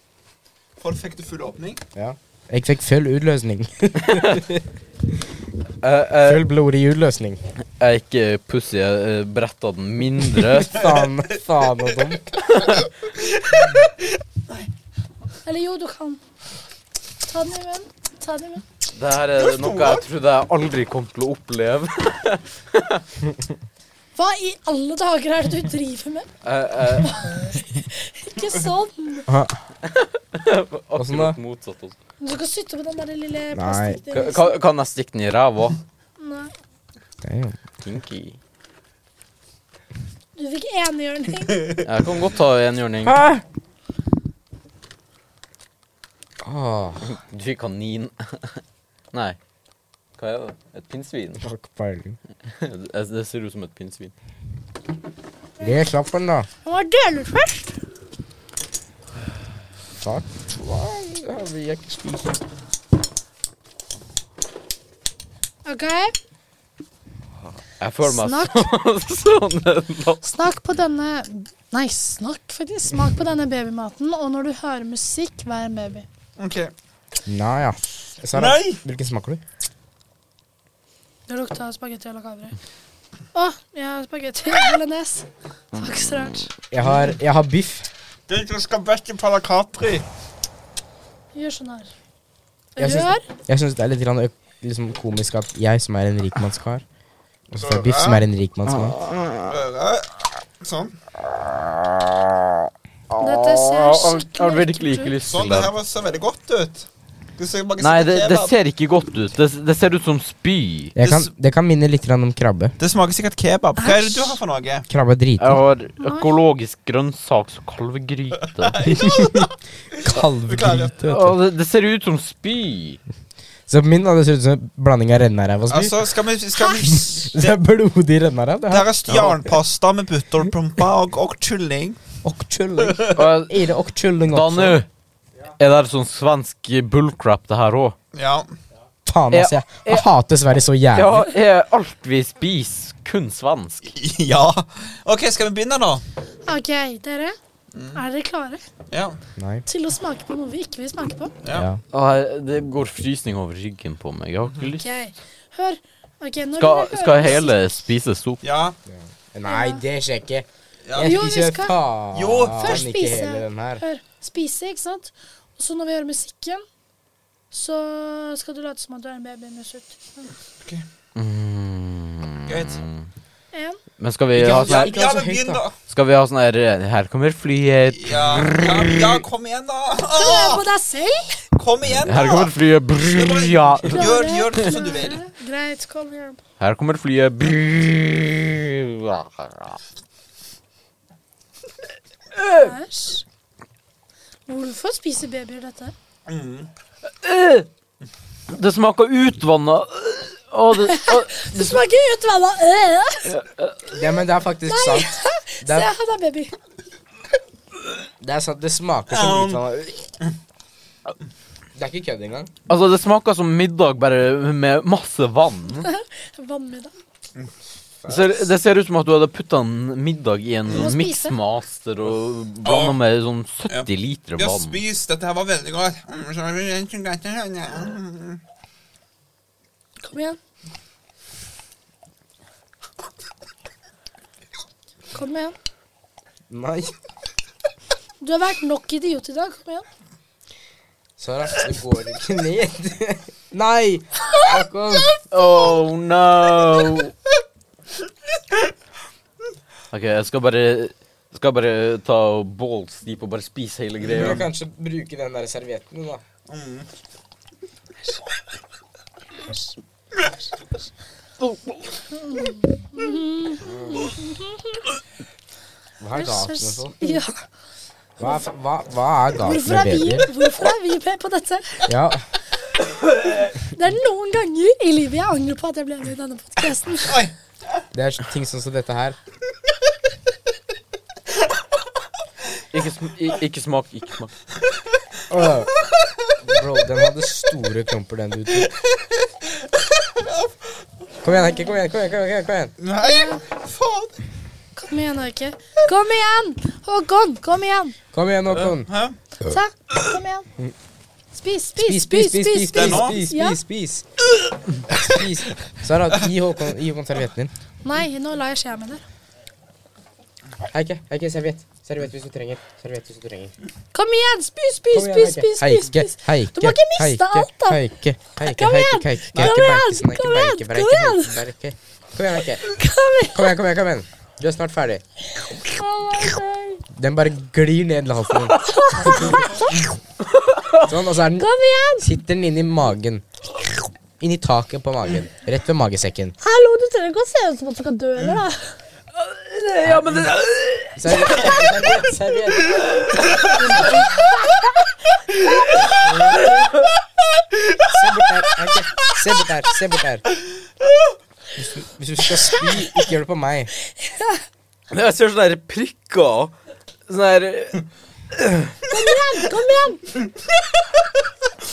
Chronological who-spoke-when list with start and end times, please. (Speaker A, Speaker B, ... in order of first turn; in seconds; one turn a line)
Speaker A: 0.8-1.8
Speaker B: 1.9-4.6
Speaker C: 5.8-6.5
Speaker B: 6.2-7.4
Speaker C: 7.8-10.9
Speaker B: 10.7-12.4
Speaker D: 15.4-16.2
Speaker D: 17.3-18.6
Speaker C: 18.9-23.0
Speaker A: 19.4-20.0
Speaker D: 24.1-26.3
Speaker C: 26.4-27.2
Speaker D: 27.0-29.3
Speaker B: 29.2-29.6
Speaker C: 29.8-32.0
Speaker B: 30.9-31.4
Speaker D: 32.2-34.6
Speaker B: 33.5-34.0
Speaker C: 34.1-35.8
Speaker D: 36.2-36.5
Speaker B: 37.2-37.6
Speaker C: 37.8-38.4
Speaker D: 40.4-41.7
Speaker C: 41.8-43.2
Speaker B: 43.0-43.4
Speaker B: 46.4-47.1
Speaker C: 47.0-49.4
Speaker C: 50.2-51.4
Speaker B: 51.4-52.2
Speaker C: 52.4-54.1
Speaker B: 55.6-56.5
Speaker D: 56.6-57.8
Speaker B: 60.0-62.4
Speaker D: 65.6-66.1
Speaker C: 67.8-70.2
Speaker D: 68.0-68.7
Speaker D: 70.2-76.0
Speaker A: 76.4-76.7
Speaker B: 77.2-79.4
Speaker A: 78.3-78.8
Speaker D: 81.3-82.6
Speaker D: 83.3-86.5
Speaker B: 86.7-87.9
Speaker A: 88.3-90.0
Speaker D: 91.3-91.9
Speaker D: 92.8-93.2
Speaker B: 92.8-96.8
Speaker B: 97.5-99.0
Speaker A: 97.6-98.2
Speaker C: 98.7-99.6
Speaker A: 99.5-100.9
Speaker C: 101.3-105.7
Speaker D: 103.2-105.1
Speaker A: 105.2-108.5
Speaker C: 107.8-110.9
Speaker B: 110.9-112.8
Speaker A: 111.0-111.3
Speaker A: 112.8-114.8
Speaker D: 113.8-114.4
Speaker B: 114.9-115.6
Speaker C: 115.4-118.8
Speaker D: 116.0-116.3
Speaker A: 118.5-120.9
Speaker B: 118.8-119.5
Speaker B: 120.0-121.4
Speaker C: 121.1-123.0
Speaker B: 123.7-125.9
Speaker A: 125.7-127.4
Speaker D: 126.5-126.9
Speaker B: 126.8-129.6
Speaker A: 128.7-132.0
Speaker B: 132.2-134.8
Speaker A: 132.9-133.2
Speaker C: 133.1-133.6
Speaker C: 134.3-134.9
Speaker C: 135.6-137.9
Speaker A: 138.1-138.5
Speaker B: 139.0-141.3
Speaker C: 139.3-140.1
Speaker C: 140.9-143.9
Speaker A: 143.8-146.0
Speaker D: 146.4-147.4
Speaker A: 147.7-148.0
Speaker D: 147.9-148.6
Speaker A: 148.9-149.2
Speaker B: 149.4-149.7
Speaker D: 149.7-151.3
Speaker B: 151.5-151.8
Speaker C: 151.9-154.9
Speaker D: 154.8-157.6
Speaker C: 156.6-158.4
Speaker A: 158.4-158.8
Speaker B: 158.9-163.8
Speaker D: 159.4-159.8
Speaker A: 160.8-161.2
Speaker D: 161.0-161.8
Speaker A: 162.1-162.9
Speaker D: 162.6-166.6
Speaker D: 167.5-170.3
Speaker C: 171.1-173.1
Speaker A: 172.5-172.8
Speaker D: 173.5-173.8
Speaker C: 174.0-174.9
Speaker B: 174.3-175.6
Speaker A: 174.5-175.8
Speaker C: 175.9-179.2
Speaker A: 177.9-180.6
Speaker D: 180.1-181.5
Speaker A: 181.5-185.2
Speaker C: 182.0-184.2
Speaker D: 183.9-186.4
Speaker C: 186.6-189.8
Speaker C: 192.3-192.8
Speaker D: 192.5-193.2
Speaker D: 194.5-195.9
Speaker A: 196.2-196.7
Speaker C: 197.2-197.7
Speaker C: 198.5-201.8
Speaker D: 200.8-203.3
Speaker C: 203.2-203.9
Speaker B: 203.9-205.9
Speaker D: 204.7-206.5
Speaker B: 208.2-210.0
Speaker A: 209.1-209.6
Speaker B: 211.7-212.5
Speaker C: 212.7-215.9
Speaker D: 215.8-216.9
Speaker C: 218.1-224.8
Speaker D: 220.7-221.3
Speaker A: 222.6-223.0
Speaker A: 223.7-228.4
Speaker D: 230.0-230.4
Speaker D: 235.1-235.6
Speaker B: 236.5-236.9
Speaker D: 238.2-239.8
Speaker B: 241.2-245.2
Speaker C: 245.3-247.1
Speaker C: 249.9-254.4
Speaker B: 254.1-256.2
Speaker A: 256.5-256.9
Speaker C: 261.4-261.9
Speaker D: 262.2-264.8
Speaker B: 263.7-264.0
Speaker B: 266.0-267.2
Speaker D: 266.2-267.4
Speaker B: 268.2-270.3
Speaker D: 269.4-271.8
Speaker B: 271.8-272.2
Speaker D: 273.6-277.2
Speaker A: 277.0-277.3
Speaker B: 277.9-279.2
Speaker C: 282.7-284.3
Speaker B: 285.3-285.7
Speaker B: 286.4-288.7
Speaker A: 290.0-290.5
Speaker B: 291.2-292.7
Speaker A: 292.8-294.2
Speaker D: 293.0-293.4
Speaker D: 294.8-297.9
Speaker B: 298.1-298.9
Speaker A: 298.5-299.1
Speaker D: 299.4-300.5
Speaker D: 301.3-303.6
Speaker B: 301.8-304.0
Speaker A: 302.7-303.2
Speaker B: 304.9-307.5
Speaker D: 307.8-309.0
Speaker B: 310.7-313.5
Speaker D: 313.9-317.8
Speaker B: 314.9-322.8
Speaker D: 318.4-321.3
Speaker D: 322.6-323.5
Speaker B: 323.3-325.0
Speaker D: 325.4-326.8
Speaker B: 326.9-329.2
Speaker D: 328.6-329.8
Speaker C: 330.3-330.9
Speaker B: 330.8-331.4
Speaker D: 331.4-332.1
Speaker B: 332.0-333.2
Speaker B: 334.2-336.4
Speaker D: 336.4-338.7
Speaker C: 339.1-341.6
Speaker B: 339.8-340.2
Speaker B: 340.9-342.9
Speaker D: 343.6-344.3
Speaker B: 346.0-346.4
Speaker C: 346.5-346.8
Speaker B: 347.9-350.2
Speaker B: 351.6-353.7
Speaker D: 354.0-354.4
Speaker C: 354.9-356.5
Speaker C: 357.1-358.8
Speaker D: 358.9-360.0